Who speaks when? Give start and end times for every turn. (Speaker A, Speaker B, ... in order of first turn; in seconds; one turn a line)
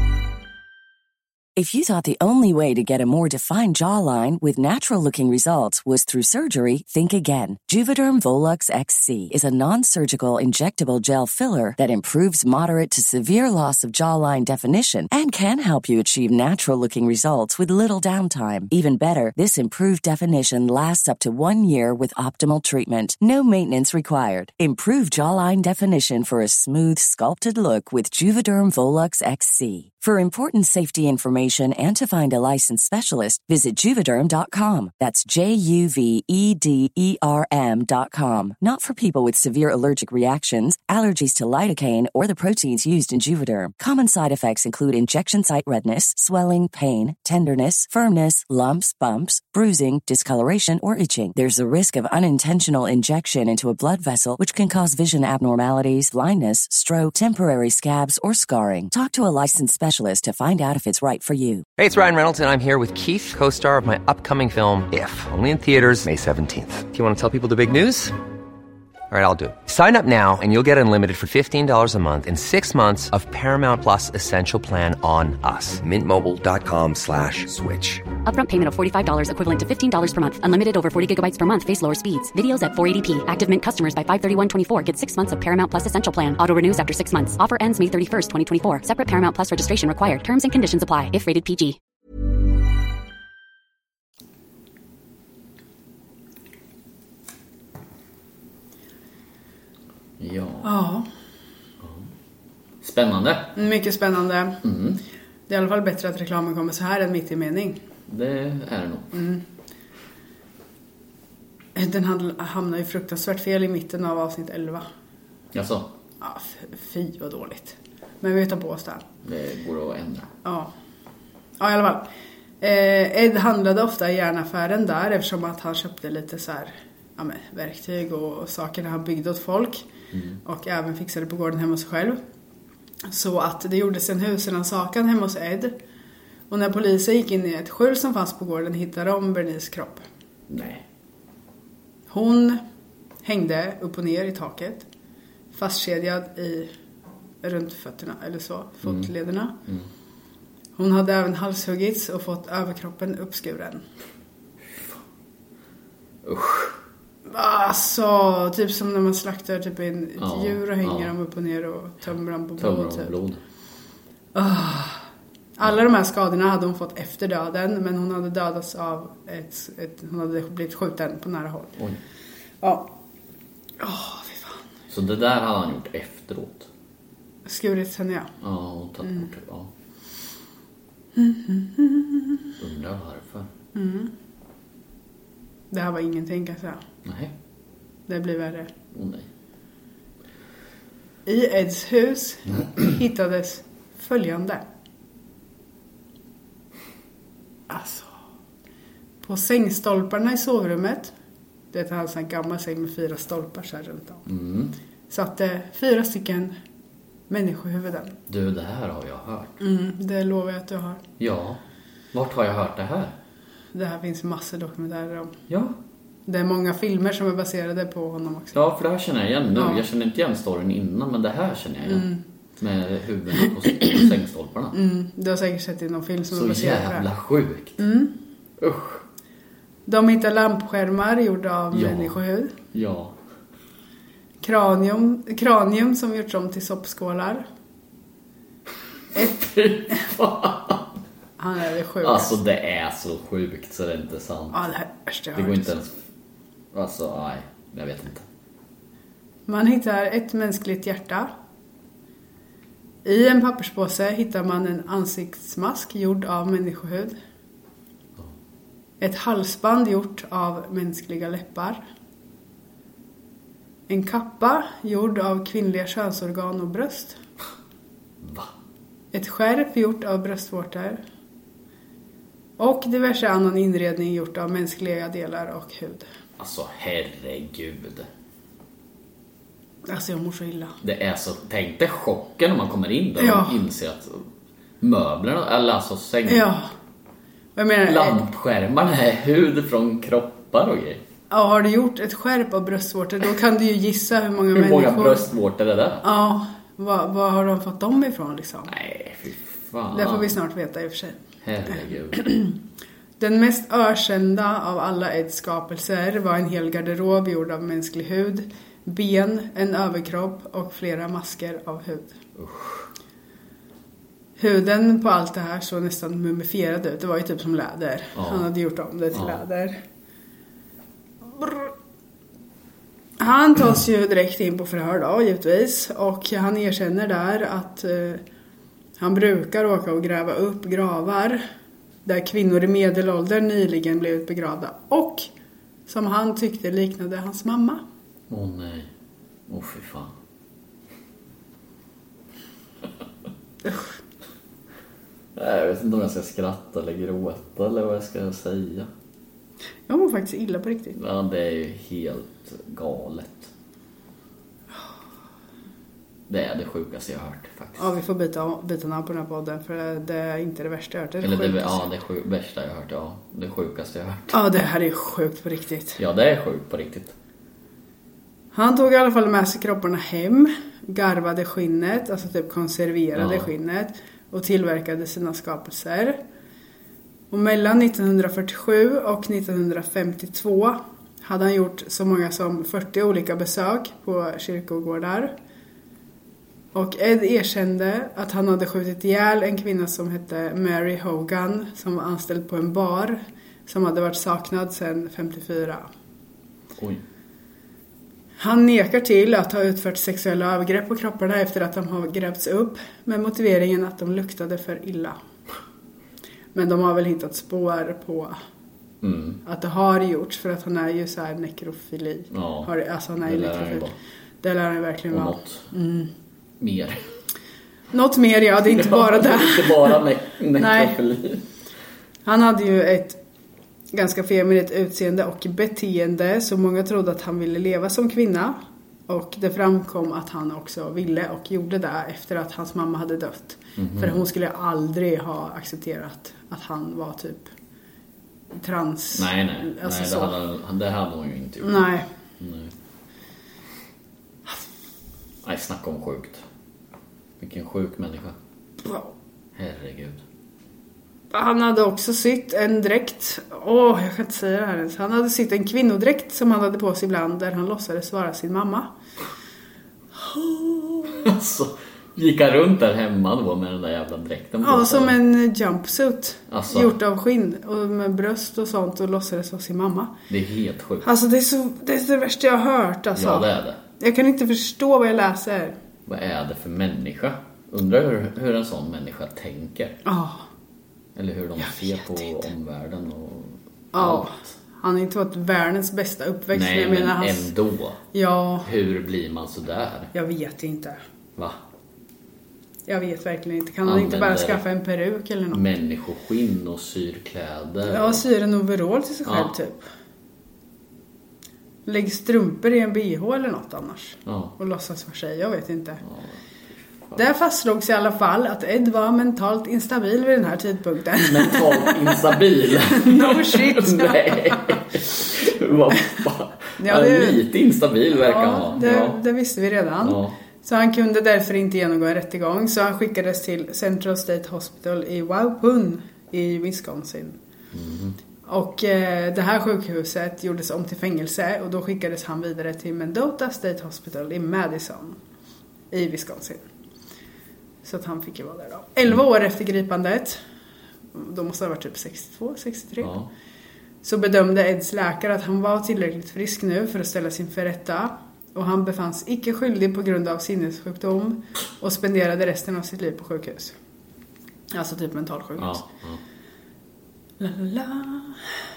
Speaker A: 1.6-61.6
Speaker B: 61.8-68.2
Speaker B: 69.1-78.0
Speaker C: 78.2-91.8
Speaker D: 100.2-100.7
Speaker E: 100.6-101.0
Speaker D: 102.8-103.6
Speaker E: 103.5-104.6
Speaker D: 104.6-105.0
Speaker E: 105.5-107.8
Speaker D: 108.1-109.1
Speaker E: 109.1-109.4
Speaker E: 111.8-114.8
Speaker D: 115.5-115.9
Speaker E: 116.2-119.0
Speaker D: 119.2-120.3
Speaker E: 120.4-120.7
Speaker E: 121.6-122.1
Speaker E: 122.6-129.8
Speaker D: 130.1-130.4
Speaker E: 130.4-132.2
Speaker E: 133.1-135.7
Speaker E: 136.5-140.0
Speaker D: 140.5-140.8
Speaker E: 142.1-142.6
Speaker E: 143.2-144.8
Speaker E: 145.5-146.7
Speaker E: 147.4-149.6
Speaker E: 150.8-153.8
Speaker D: 156.2-156.8
Speaker E: 157.3-163.1
Speaker D: 160.2-161.1
Speaker D: 162.6-163.4
Speaker E: 164.3-165.0
Speaker E: 165.6-171.8
Speaker E: 172.6-172.9
Speaker E: 173.8-174.6
Speaker D: 174.9-176.7
Speaker E: 177.4-178.3
Speaker D: 178.4-179.7
Speaker E: 181.2-182.5
Speaker D: 182.6-183.5
Speaker E: 183.7-184.1
Speaker E: 185.7-186.8
Speaker D: 187.0-187.3
Speaker E: 188.1-188.7
Speaker D: 188.9-189.2
Speaker E: 191.2-194.6
Speaker E: 197.7-198.1
Speaker E: 199.2-201.1
Speaker E: 201.7-204.2
Speaker D: 204.3-204.7
Speaker E: 205.1-206.5
Speaker E: 207.3-208.1
Speaker D: 208.3-209.6
Speaker E: 209.6-211.0
Speaker D: 211.2-211.6
Speaker D: 212.1-213.1
Speaker E: 213.7-215.3
Speaker D: 215.5-215.8
Speaker E: 216.3-218.6
Speaker D: 218.5-224.8
Speaker E: 219.6-219.8
Speaker E: 221.8-222.2
Speaker E: 224.7-227.1
Speaker D: 226.3-227.8
Speaker E: 227.8-228.1
Speaker D: 228.6-229.0
Speaker E: 229.9-232.5
Speaker D: 231.7-232.2
Speaker D: 232.7-233.1
Speaker E: 234.4-237.4
Speaker D: 239.2-240.9
Speaker E: 241.4-242.3
Speaker D: 242.0-244.7
Speaker E: 244.5-245.7
Speaker D: 245.3-245.9
Speaker D: 246.7-248.2
Speaker E: 249.5-251.3
Speaker E: 253.0-257.1
Speaker E: 259.0-261.8
Speaker E: 263.9-267.2
Speaker D: 268.2-268.5
Speaker E: 269.1-271.0
Speaker E: 272.6-276.0
Speaker D: 276.4-278.1
Speaker E: 279.9-280.8
Speaker D: 280.8-284.3
Speaker E: 283.2-283.6
Speaker D: 284.8-286.5
Speaker E: 286.3-286.7
Speaker E: 287.6-288.2
Speaker D: 287.9-291.0
Speaker E: 291.3-295.3
Speaker D: 294.5-296.0
Speaker E: 296.0-298.7
Speaker D: 298.7-300.3
Speaker E: 299.9-301.2
Speaker D: 301.4-302.3
Speaker E: 302.1-302.5
Speaker E: 303.2-312.2
Speaker D: 312.4-312.9
Speaker E: 314.4-319.8
Speaker D: 318.1-318.5
Speaker D: 319.1-319.4
Speaker E: 321.3-321.7
Speaker E: 323.2-328.2
Speaker E: 329.0-331.4
Speaker E: 332.1-335.3
Speaker E: 335.9-337.8
Speaker D: 338.3-338.9
Speaker D: 339.5-340.1
Speaker D: 345.4-348.9
Speaker E: 349.9-351.0
Speaker D: 350.9-353.5
Speaker D: 356.3-357.9
Speaker E: 357.8-361.9
Speaker D: 361.2-364.4
Speaker E: 364.3-366.0
Speaker D: 366.0-367.1
Speaker E: 368.5-376.2
Speaker D: 373.1-373.5
Speaker E: 377.3-385.3
Speaker E: 386.7-395.9
Speaker E: 398.4-405.2
Speaker E: 406.5-408.4
Speaker D: 409.0-409.4
Speaker E: 409.4-413.9
Speaker D: 412.3-413.9
Speaker E: 414.4-416.1
Speaker D: 415.1-415.7
Speaker D: 416.6-417.0
Speaker E: 417.9-420.0
Speaker D: 418.7-421.4
Speaker E: 420.5-420.9
Speaker E: 422.2-423.2
Speaker E: 423.9-437.5
Speaker D: 433.8-434.2
Speaker E: 438.5-440.4
Speaker D: 439.1-441.9
Speaker E: 441.6-442.1
Speaker D: 442.4-442.7
Speaker D: 445.4-446.4
Speaker D: 447.4-448.4
Speaker E: 448.8-449.1
Speaker D: 449.6-450.2
Speaker E: 451.3-458.9
Speaker E: 460.1-461.3
Speaker D: 461.1-465.2
Speaker E: 464.6-470.1
Speaker D: 466.5-466.9
Speaker D: 470.3-471.1
Speaker E: 471.0-475.8
Speaker D: 473.1-473.8
Speaker D: 476.1-480.0
Speaker E: 480.0-480.4
Speaker D: 481.1-484.5
Speaker E: 481.6-482.4
Speaker E: 483.9-487.5
Speaker D: 486.5-488.0
Speaker E: 488.1-488.7
Speaker D: 488.6-490.1
Speaker E: 490.1-491.0
Speaker E: 492.9-495.6
Speaker D: 493.8-494.6
Speaker D: 495.5-498.2
Speaker E: 497.9-499.8
Speaker D: 499.2-499.5
Speaker E: 501.9-506.0
Speaker D: 504.2-504.6
Speaker D: 506.0-506.3
Speaker E: 507.1-514.8
Speaker D: 511.2-519.2
Speaker E: 516.8-517.4
Speaker E: 518.1-527.4
Speaker D: 520.0-520.3
Speaker D: 527.7-528.2
Speaker E: 528.5-535.2
Speaker E: 535.9-536.6
Speaker E: 537.8-540.4
Speaker E: 541.1-543.1
Speaker D: 543.0-543.3
Speaker E: 544.0-553.7
Speaker E: 554.7-555.8
Speaker D: 555.6-556.2
Speaker E: 557.4-558.4